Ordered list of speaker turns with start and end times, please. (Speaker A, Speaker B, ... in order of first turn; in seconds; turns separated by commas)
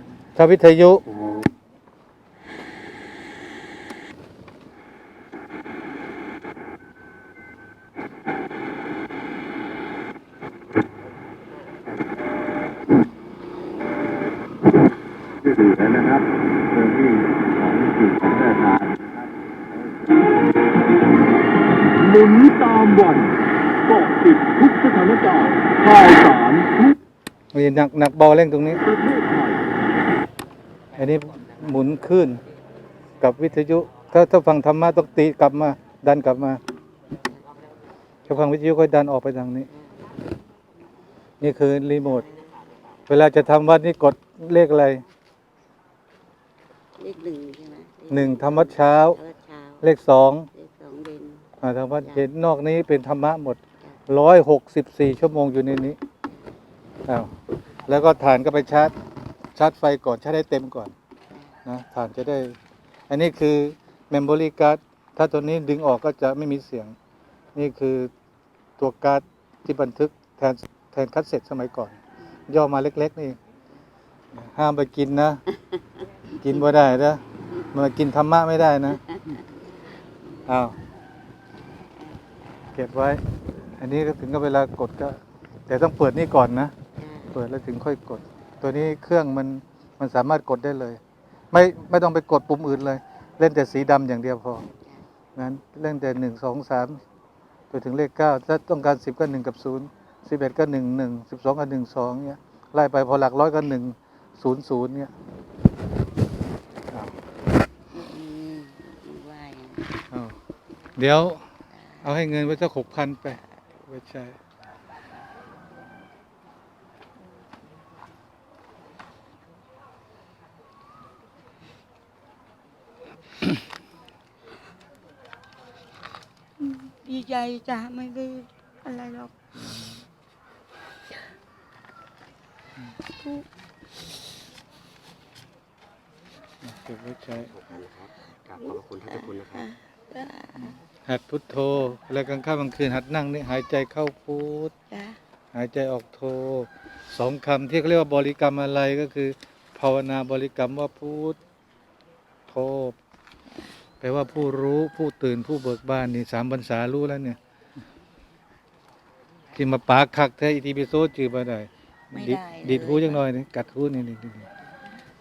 Speaker A: 0.4-1.0, Speaker B: 1.2-1.4, Speaker B: 22.1-23.3, Speaker B: 23.9-26.9, Speaker A: 27.5-28.8, Speaker B: 28.9-29.6, Speaker A: 31.0-32.4, Speaker A: 33.2-36.6, Speaker A: 38.3-39.7, Speaker A: 41.4-42.2, Speaker C: 42.1-42.5, Speaker A: 43.1-45.0, Speaker C: 47.0-49.9, Speaker A: 48.1-49.2, Speaker A: 49.8-50.5, Speaker C: 50.5-51.5, Speaker A: 51.6-56.0, Speaker A: 57.1-57.3, Speaker A: 57.9-58.9, Speaker A: 59.6-60.9, Speaker A: 61.7-62.5, Speaker A: 63.1-66.9, Speaker A: 67.5-68.1, Speaker A: 68.8-72.0, Speaker A: 72.5-73.4, Speaker A: 74.3-75.4, Speaker A: 76.4-77.2, Speaker A: 77.7-79.0, Speaker A: 80.5-80.8, Speaker A: 82.8-83.2, Speaker A: 83.8-86.7, Speaker C: 87.0-87.3, Speaker A: 87.3-91.0, Speaker A: 91.5-94.7, Speaker A: 95.4-97.0, Speaker A: 97.7-105.1, Speaker C: 107.9-110.0, Speaker A: 111.0-111.5, Speaker C: 111.7-112.3, Speaker A: 112.0-114.4, Speaker C: 126.6-129.3, Speaker C: 133.2-133.5, Speaker A: 136.6-137.5, Speaker D: 137.3-139.7, Speaker C: 138.6-140.8, Speaker A: 141.1-144.7, Speaker C: 144.9-145.2, Speaker A: 145.5-151.4, Speaker A: 152.5-153.0, Speaker A: 154.0-157.4, Speaker A: 159.6-164.5, Speaker C: 162.1-163.2